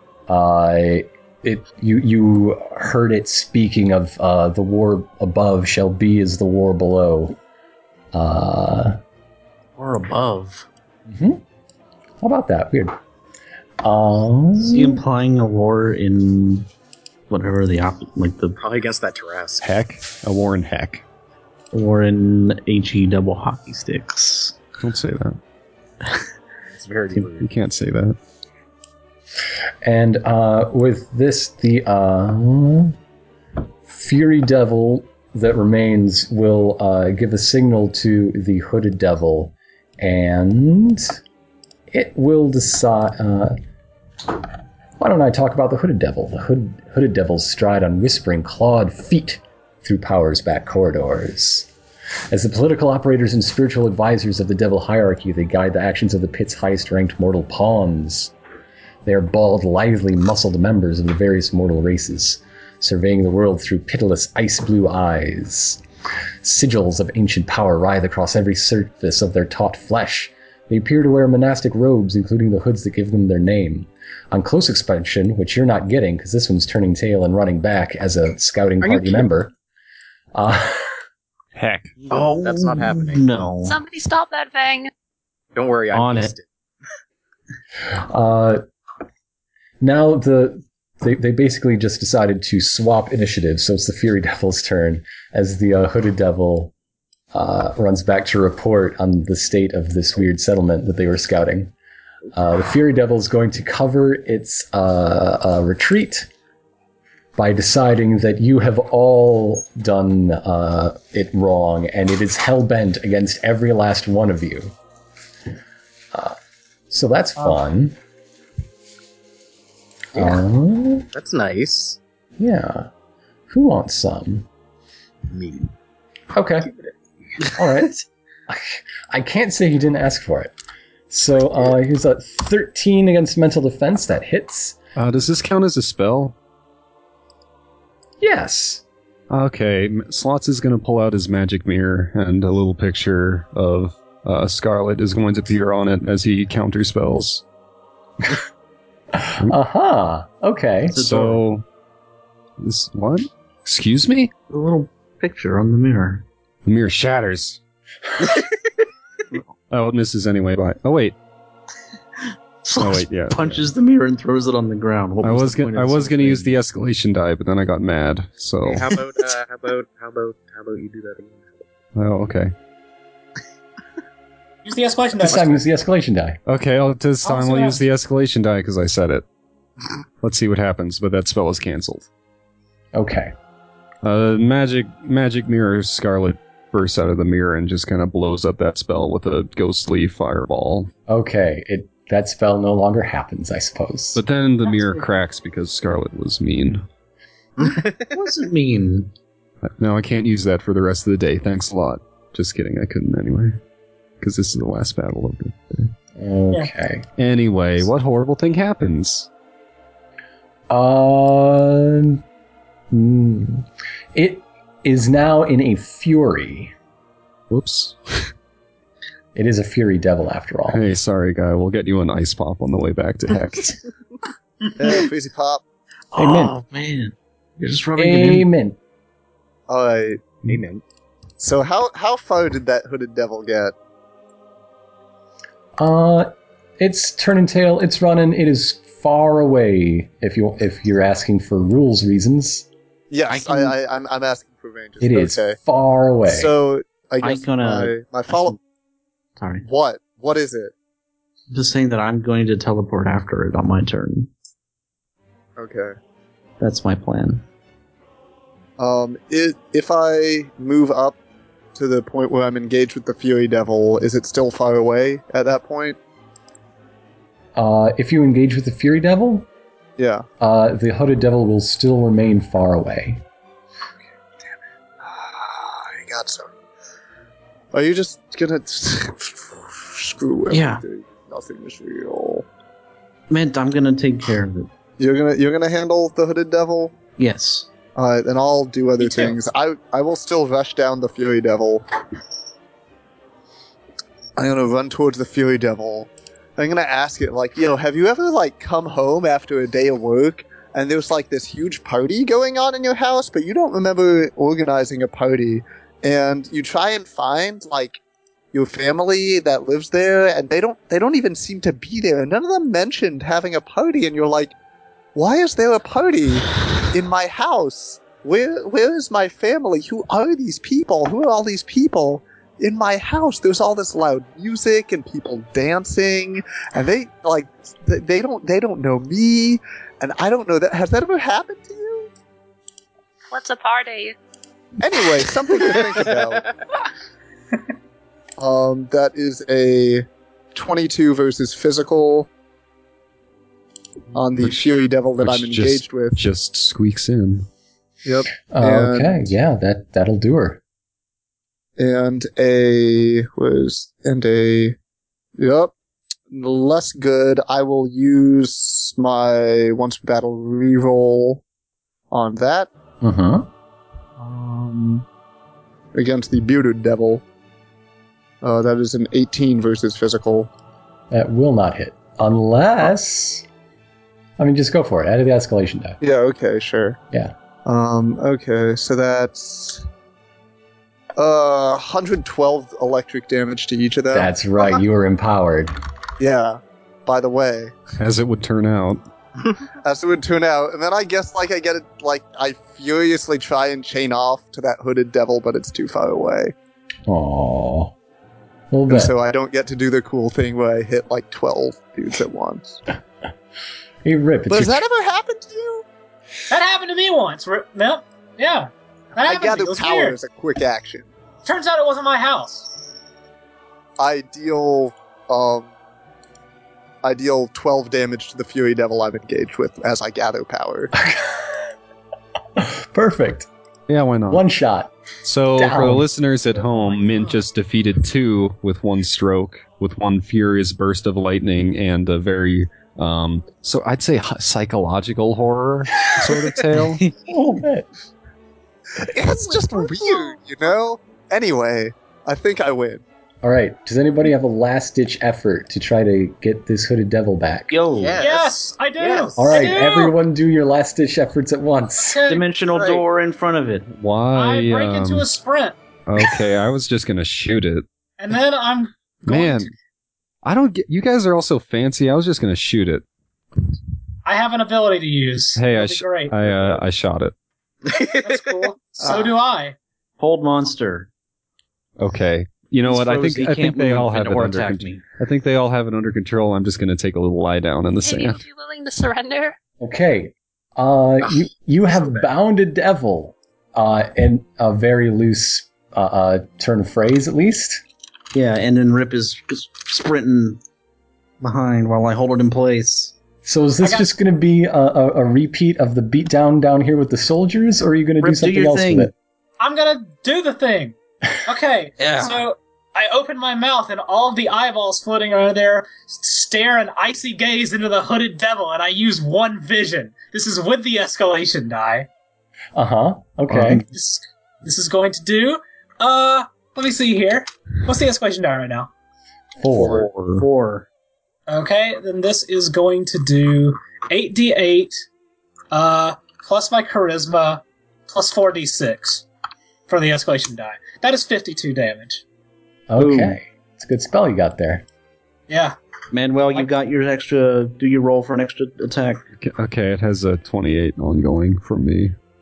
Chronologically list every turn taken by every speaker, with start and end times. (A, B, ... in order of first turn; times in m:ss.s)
0:00.3-0:07.4 A
0:08.1-0:09.0 A
0:09.8-0:10.6 B
0:11.1-0:11.4 A
0:12.2-0:13.0 A
0:13.8-0:15.0 A
0:14.6-0:16.7 B
0:17.3-0:18.6 B
0:18.6-0:19.6 C
0:19.6-0:21.0 D
0:21.7-0:24.6 B
0:24.8-0:25.4 D
0:26.8-0:27.5 C
0:27.4-0:28.2 D
0:29.8-0:32.9 A
0:33.9-0:41.1 A
0:41.9-0:43.6 A
0:45.0-0:51.7 A
0:52.3-0:58.3 A
0:59.0-1:05.8 A
1:06.4-1:19.5 A
1:18.8-1:19.3 B
1:20.3-1:21.0 A
1:21.6-1:21.9 D
1:22.0-1:23.3 C
1:22.1-1:23.8 B
1:23.6-1:24.9 E
1:25.5-1:26.4 C
1:25.9-1:26.3 B
1:27.9-1:28.6 A
1:29.8-1:36.7 A
1:37.3-1:41.7 A
1:42.3-1:46.3 A
1:47.3-1:54.7 A
1:56.1-1:56.4 A
1:56.9-1:58.0 A
2:00.1-2:01.1 A
2:01.1-2:02.0 C
2:02.4-2:02.9 A
2:03.5-2:04.5 A
2:05.3-2:05.7 C
2:06.3-2:06.7 A
2:06.6-2:06.9 C
2:07.6-2:10.5 A
2:11.1-2:14.8 A
2:15.0-2:16.3 D
2:18.2-2:18.8 A
2:19.3-2:27.4 D
2:29.1-2:31.0 A
2:30.9-2:31.4 B
2:31.0-2:31.6 D
2:32.6-2:34.3 D
2:34.5-2:36.2 B
2:36.6-2:37.6 D
2:39.7-2:41.2 D
2:42.6-2:46.6 B
2:42.7-2:43.6 D
2:45.2-2:48.9 D
2:48.6-2:51.7 C
2:51.9-2:52.5 D
2:54.6-2:55.6 F
2:55.2-2:56.4 A
2:56.4-2:59.2 D
2:57.2-2:57.8 F
3:00.2-3:02.1 D
3:02.9-3:03.3 A
3:04.0-3:10.9 D
3:11.1-3:14.2 A
3:14.1-3:16.8 D
3:14.6-3:15.1 F
3:17.6-3:18.1 C
3:18.0-3:19.1 B
3:19.6-3:23.6 D
3:24.2-3:25.9 D
3:26.2-3:27.1 A
3:27.2-3:29.3 D
3:30.7-3:32.2 A
3:32.9-3:36.7 A
3:37.5-3:38.3 D
3:39.3-3:40.8 A
3:40.7-3:43.8 D
3:44.8-3:45.6 G
3:46.1-3:48.5 B
3:46.2-3:46.5 A
3:48.0-3:48.8 A
3:49.7-3:50.4 G
3:50.5-3:50.8 C
3:51.4-3:53.7 G
3:55.8-4:02.7 A
4:03.1-4:05.6 G
4:03.3-4:03.8 B
4:05.0-4:06.5 A
4:06.2-4:08.6 G
4:07.2-4:08.6 B
4:09.4-4:09.6 B
4:09.6-4:10.7 G
4:11.5-4:14.3 B
4:15.6-4:15.9 G
4:16.6-4:17.4 B
4:18.8-4:21.2 G
4:21.7-4:26.0 G
4:27.6-4:29.5 A
4:30.0-4:30.2 G
4:30.4-4:33.2 A
4:35.0-4:36.5 G
4:37.7-4:42.5 G
4:40.5-4:40.8 B
4:43.3-4:44.7 B
4:45.0-4:47.0 G
4:47.2-4:47.7 B
4:47.9-4:51.8 G
4:49.0-4:49.4 F
4:54.4-5:08.0 G
5:08.5-5:14.5 G
5:15.1-5:32.1 G
5:33.3-5:34.1 E
5:34.8-5:36.5 G
5:36.0-5:36.5 C
5:38.4-5:42.3 G
5:44.1-5:46.2 G
5:44.4-5:47.5 D
5:48.0-5:49.2 G
5:48.5-5:50.6 A
5:51.8-5:54.8 G
5:55.4-5:55.7 G
5:56.3-6:01.4 G
6:02.1-6:02.7 G
6:03.0-6:03.5 A
6:04.2-6:05.0 G
6:05.9-6:07.2 G
6:08.4-6:10.5 G
6:11.1-6:13.4 A
6:14.4-6:16.0 A
6:16.0-6:17.0 G
6:17.6-6:19.8 G
6:21.2-6:24.8 G
6:24.1-6:25.7 A
6:26.2-6:27.7 G
6:28.0-6:29.0 D
6:29.8-6:36.5 G
6:37.1-6:37.9 A
6:38.7-6:39.1 A
6:38.9-6:42.8 G
6:44.0-6:44.8 A
6:44.5-6:45.8 G
6:46.5-6:50.2 F
6:49.2-6:51.1 G
6:51.4-6:52.7 F
6:54.0-6:55.7 G
6:57.0-7:00.9 G
7:00.9-7:01.7 A
7:02.6-7:03.5 A
7:03.9-7:04.4 D
7:04.3-7:04.9 A
7:05.2-7:17.1 D
7:05.5-7:06.1 A
7:16.8-7:17.1 B
7:17.3-7:17.9 A
7:19.0-7:23.0 G
7:19.3-7:20.4 E
7:23.4-7:27.7 A
7:27.7-7:28.2 B
7:28.0-7:29.8 C
7:28.2-7:30.2 F
7:29.4-7:32.2 A
7:32.0-7:32.4 F
7:32.3-7:33.9 B
7:32.7-7:33.0 C
7:34.0-7:35.3 D
7:34.3-7:35.8 F
7:36.0-7:37.8 D
7:38.2-7:39.7 F
7:39.2-7:39.7 D
7:40.4-7:43.0 D
7:44.2-7:46.8 F
7:45.5-7:47.4 D
7:47.8-7:48.7 C
7:47.9-7:49.7 F
7:49.0-7:49.3 G
7:50.2-7:51.1 B
7:52.0-7:58.4 D
7:52.8-7:55.0 B
7:58.0-7:59.6 E
7:59.8-8:07.8 A
8:02.0-8:02.2 C
8:08.3-8:10.6 B
8:11.4-8:13.2 B
8:13.4-8:19.1 A
8:13.8-8:14.1 F
8:18.2-8:19.1 B
8:19.6-8:32.1 F
8:22.0-8:22.4 B
8:32.7-8:33.8 A
8:33.5-8:33.8 D
8:33.9-8:38.9 F
8:39.6-8:40.1 A
8:39.7-8:40.4 D
8:39.8-8:40.9 B
8:41.5-8:45.0 F
8:45.7-8:49.2 F
8:49.9-8:52.2 F
8:52.9-8:54.8 A
8:53.0-8:53.4 B
8:55.5-8:55.8 F
8:56.1-8:59.2 B
8:59.4-9:02.1 D